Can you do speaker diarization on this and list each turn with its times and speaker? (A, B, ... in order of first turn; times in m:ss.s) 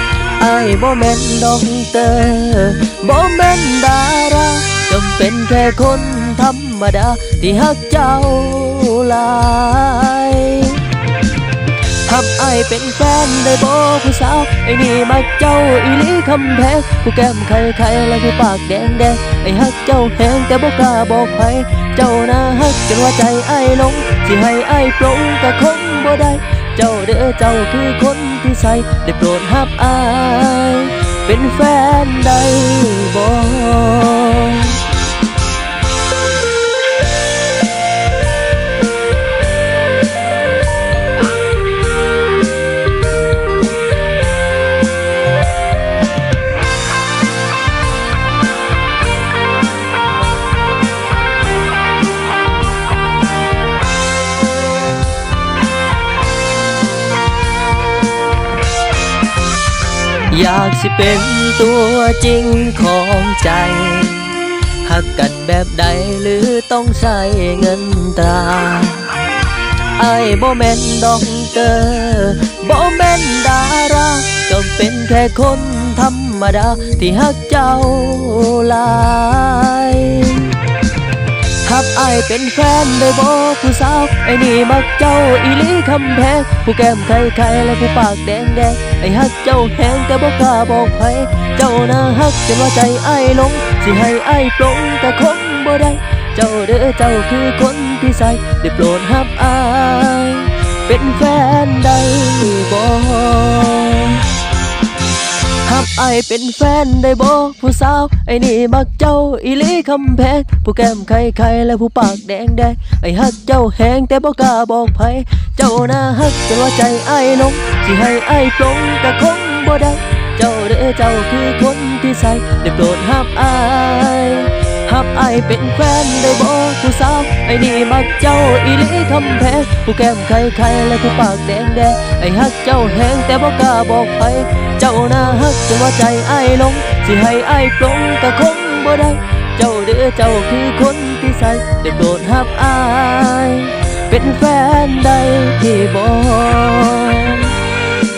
0:00.4-0:10.9 A
0:12.0-0:34.8 A
1:00.3-1:09.2 A
1:10.0-1:20.6 A
1:21.6-1:44.3 A
1:45.6-2:27.6 A